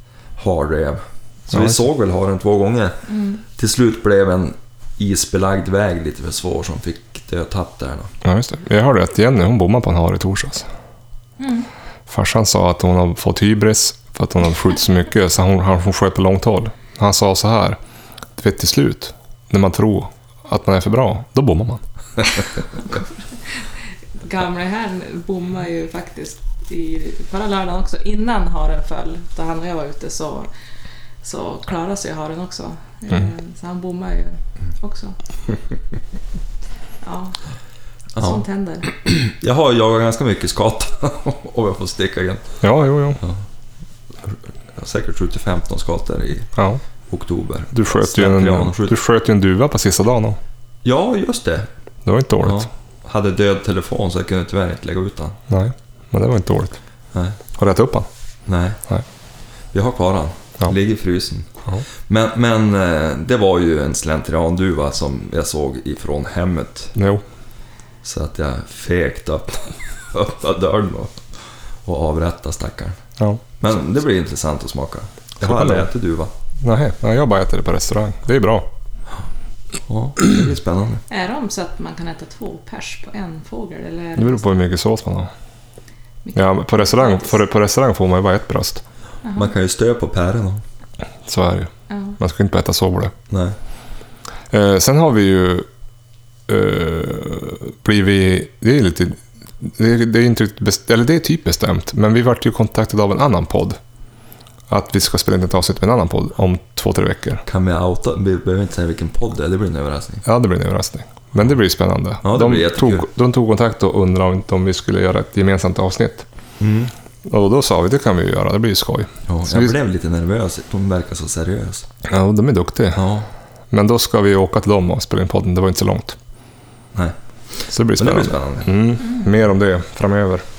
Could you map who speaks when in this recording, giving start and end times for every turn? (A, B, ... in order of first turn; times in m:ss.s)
0:00.4-0:03.0 A
0:01.5-0:01.8 B
0:03.1-0:03.4 C
0:03.6-0:08.1 A
0:08.2-0:10.7 B
0:11.4-0:11.7 C
0:12.1-0:17.8 B
0:18.4-0:21.8 B
0:22.9-0:23.7 C
0:24.2-0:30.5 C
0:31.2-0:35.2 C
0:37.0-0:37.4 C
0:38.2-0:42.4 A
0:38.2-0:38.9 C
0:42.6-0:43.2 B
0:44.2-0:46.5 A
0:46.6-0:46.8 B
0:47.1-0:49.0 A
0:47.7-0:50.4 B
0:50.8-0:51.7 A
0:52.0-0:52.7 B
0:52.4-0:55.4 A
0:55.5-0:56.8 B
0:57.1-0:57.4 A
0:57.6-0:58.1 B
0:58.4-0:58.8 A
0:59.7-1:01.5 A
1:02.1-1:06.9 A
1:07.0-1:07.2 B
1:08.0-1:11.2 A
1:11.8-1:13.0 A
1:13.6-1:16.3 A
1:15.4-1:15.9 B
1:16.6-1:18.7 B
1:19.9-1:21.0 A
1:21.1-1:24.5 C
1:24.2-1:25.3 B
1:26.2-1:27.4 C
1:26.4-1:28.8 B
1:29.2-1:29.5 C
1:29.4-1:30.6 A
1:31.3-1:33.1 B
1:31.9-1:32.2 C
1:33.3-1:33.6 A
1:34.5-1:35.7 B
1:36.5-1:43.8 B
1:44.7-1:47.4 B
1:47.4-1:50.2 A
1:50.2-1:56.2 B
1:52.2-1:53.1 A
1:56.6-1:56.9 A
1:57.2-1:59.8 B
1:59.3-2:01.9 A
2:02.1-2:03.0 B
2:02.9-2:03.3 A
2:03.7-2:06.2 B
2:07.7-2:10.4 B
2:08.0-2:08.8 A